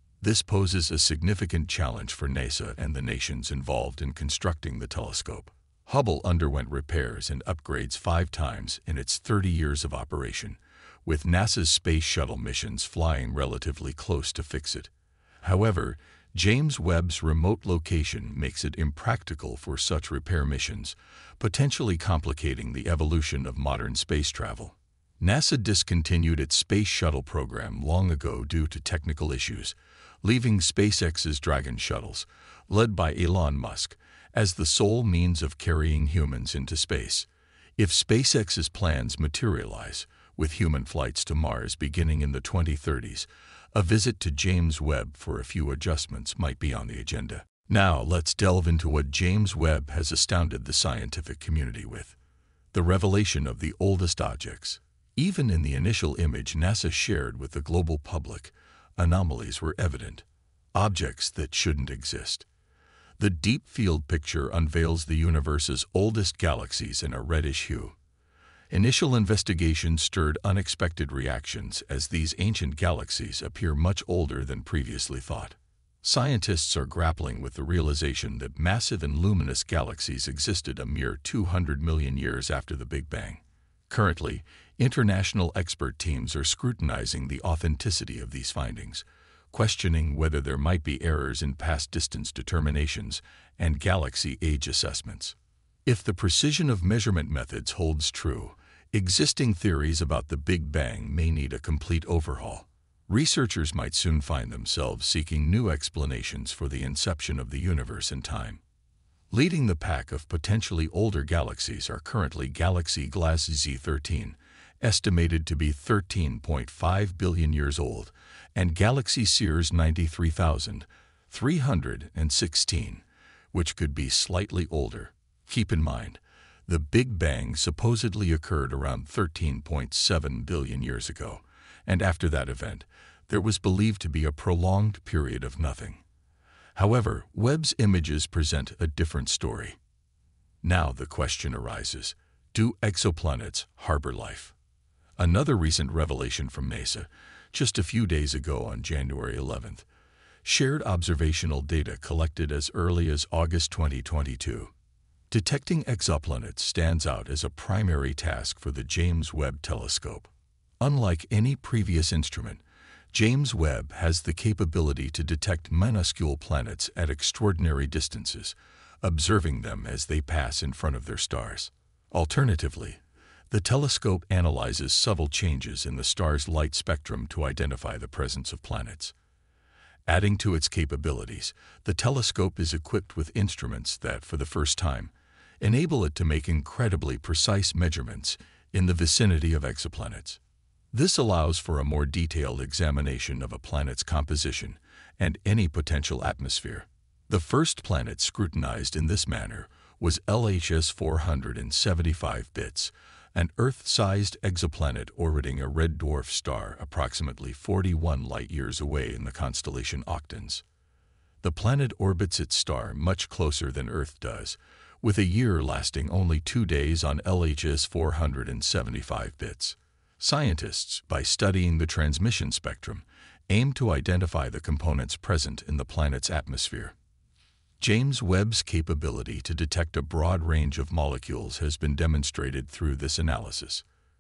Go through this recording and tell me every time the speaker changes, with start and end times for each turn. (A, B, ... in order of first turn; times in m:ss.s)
0:00.2-0:14.9 A
0:15.4-0:52.2 A
0:52.7-1:02.5 A
1:03.2-1:08.0 A
1:08.7-1:48.6 A
1:49.3-2:16.0 A
2:16.8-2:19.8 A
2:20.6-2:24.6 A
2:25.2-2:29.9 A
2:30.4-2:34.7 A
2:35.3-2:59.1 A
3:00.1-3:10.4 A
3:10.9-3:30.6 A
3:31.4-3:47.0 A
3:47.8-3:53.8 A